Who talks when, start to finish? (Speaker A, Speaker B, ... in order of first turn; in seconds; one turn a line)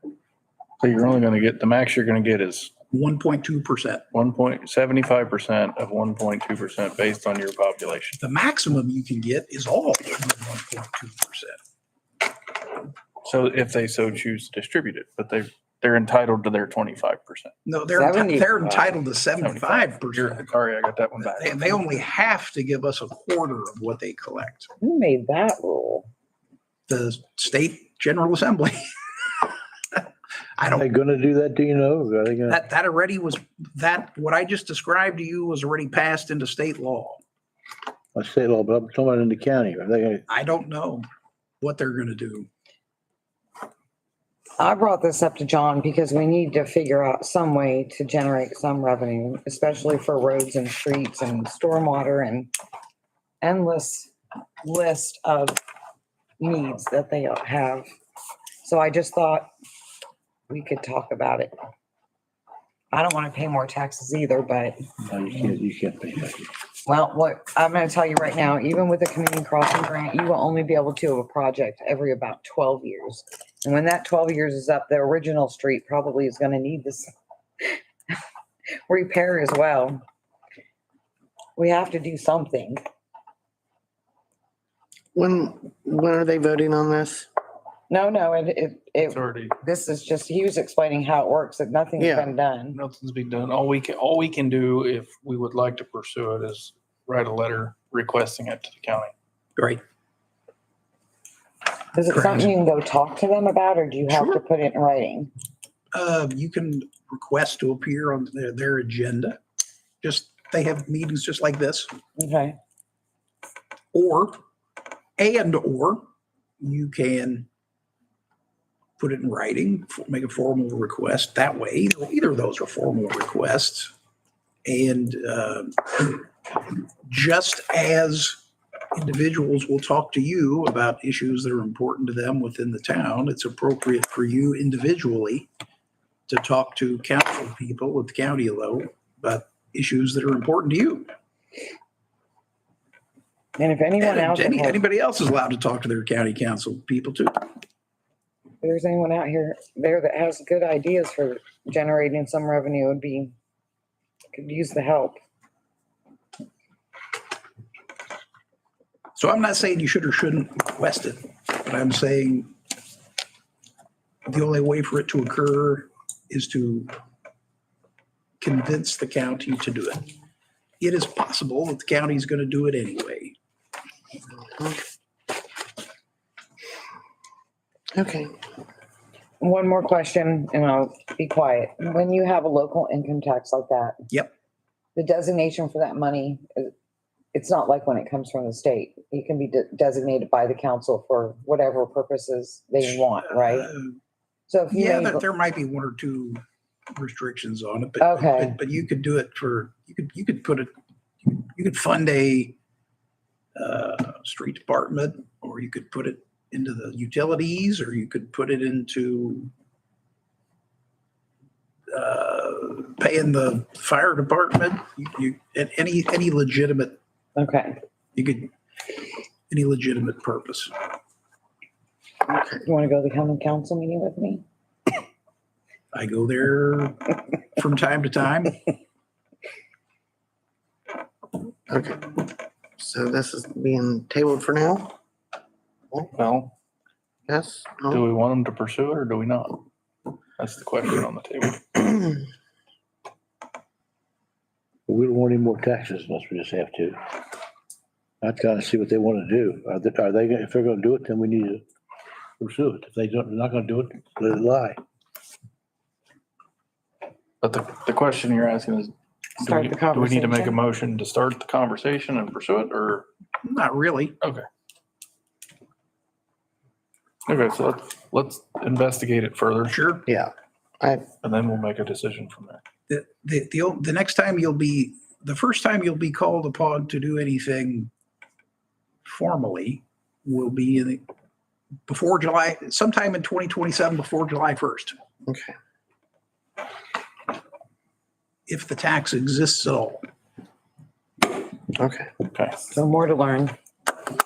Speaker A: 0.8-2.7
Speaker B: 2.9-4.1
Speaker A: 4.1-8.2
Speaker B: 8.2-11.6
Speaker A: 13.2-17.5
Speaker B: 17.6-20.4
Speaker C: 17.9-19.0
Speaker A: 19.4-21.9
Speaker B: 21.2-24.7
Speaker C: 24.8-26.1
Speaker B: 26.9-30.0
Speaker B: 30.6-30.8
Speaker D: 30.7-32.6
Speaker B: 32.5-37.2
Speaker D: 38.1-40.2
Speaker B: 40.3-41.1
Speaker B: 41.6-42.5
Speaker C: 44.6-52.5
Speaker C: 53.4-54.1
Speaker C: 54.6-55.6
Speaker C: 56.4-57.9
Speaker C: 58.6-59.5
Speaker C: 60.5-61.5
Speaker C: 62.9-64.8
Speaker D: 65.0-66.5
Speaker C: 66.8-77.1
Speaker C: 78.9-80.0
Speaker C: 81.6-82.8
Speaker E: 85.2-87.3
Speaker C: 87.9-92.8
Speaker A: 89.1-89.6
Speaker E: 92.0-92.3
Speaker A: 92.7-99.1
Speaker B: 99.6-99.8
Speaker C: 102.0-105.3
Speaker B: 102.1-102.5
Speaker B: 104.1-104.4
Speaker B: 105.9-109.4
Speaker B: 110.0-111.9
Speaker C: 112.2-112.6
Speaker B: 113.9-114.4
Speaker B: 115.2-116.1
Speaker B: 116.6-117.5
Speaker B: 119.0-123.9
Speaker B: 124.7-128.4
Speaker B: 128.9-135.5
Speaker B: 136.3-141.1
Speaker C: 143.6-144.8
Speaker B: 144.0-147.5
Speaker C: 148.6-153.3
Speaker C: 154.3-155.2
Speaker B: 159.2-162.5
Speaker B: 164.3-166.9
Speaker B: 168.4-170.1
Speaker B: 170.8-173.3
Speaker E: 174.4-174.8
Speaker E: 177.9-178.4
Speaker C: 179.4-184.0
Speaker C: 184.9-186.7
Speaker C: 187.3-193.7
Speaker B: 193.3-194.0
Speaker C: 194.5-195.2
Speaker B: 194.7-196.4
Speaker B: 197.0-200.7
Speaker C: 198.0-198.6
Speaker B: 201.2-202.6
Speaker B: 203.6-209.5
Speaker B: 211.9-217.0
Speaker C: 217.4-217.8
Speaker B: 218.2-218.5
Speaker B: 219.5-220.7
Speaker E: 222.3-222.6
Speaker C: 222.7-224.4
Speaker B: 225.9-228.6
Speaker E: 231.7-235.0
Speaker A: 236.1-236.5
Speaker E: 237.3-238.1
Speaker A: 237.9-239.7
Speaker A: 240.4-242.0
Speaker D: 244.9-247.0
Speaker D: 248.2-251.6
Speaker D: 252.4-254.8
Speaker A: 257.4-263.1
Speaker C: 259.4-260.6
Speaker B: 263.4-264.2
Speaker A: 267.3-269.8
Speaker B: 269.7-270.1
Speaker E: 270.1-271.1
Speaker A: 271.2-272.6
Speaker B: 272.9-277.9
Speaker B: 279.0-281.1
Speaker B: 281.9-285.0
Speaker E: 285.3-285.6
Speaker B: 288.5-290.1
Speaker E: 291.8-292.1
Speaker A: 292.3-292.6
Speaker C: 292.7-293.5